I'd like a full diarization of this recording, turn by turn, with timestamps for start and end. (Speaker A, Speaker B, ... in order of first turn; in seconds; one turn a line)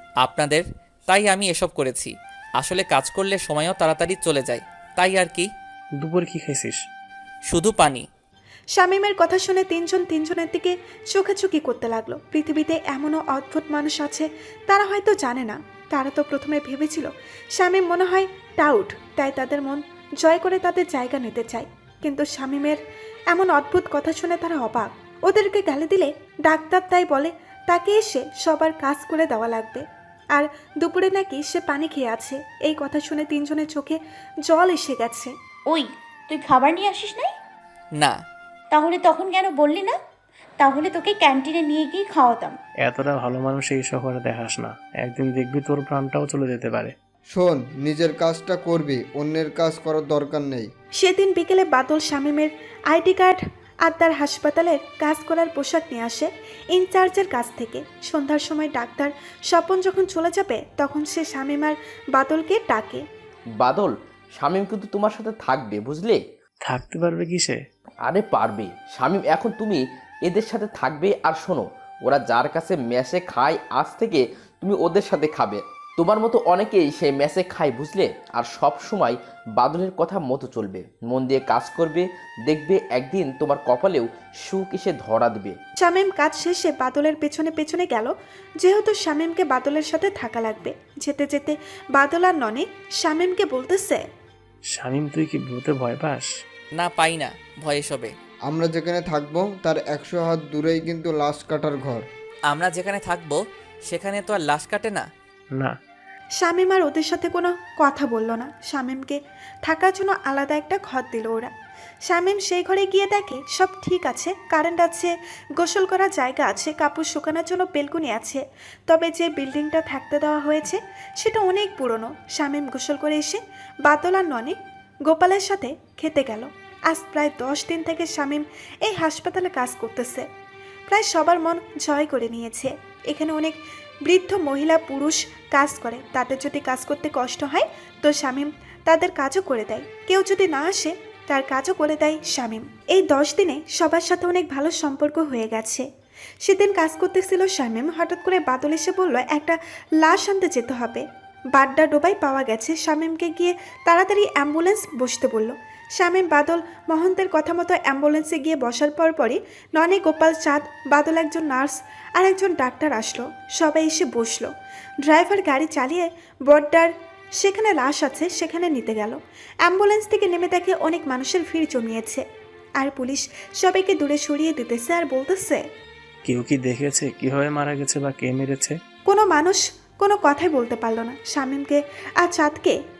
Speaker A: 0.2-5.5
Speaker B: 6.0-6.8
Speaker A: 7.5-8.1
Speaker C: 8.8-22.8
Speaker C: 23.3-35.3
Speaker D: 35.7-37.3
Speaker D: 38.7-40.0
Speaker D: 40.6-42.6
Speaker B: 42.8-46.9
Speaker E: 47.3-50.7
Speaker C: 51.0-63.0
Speaker F: 63.6-66.2
Speaker B: 66.7-67.6
Speaker F: 68.0-85.6
Speaker C: 85.8-94.0
Speaker B: 94.7-96.3
Speaker A: 96.8-98.1
Speaker E: 98.5-102.1
Speaker A: 102.5-105.1
Speaker C: 106.4-111.5
Speaker C: 112.1-124.6
Speaker C: 125.1-130.3
Speaker C: 130.9-145.9
Speaker C: 146.4-164.5
Speaker C: 165.1-172.2
Speaker C: 172.8-175.6
Speaker B: 176.2-178.8
Speaker C: 179.1-182.8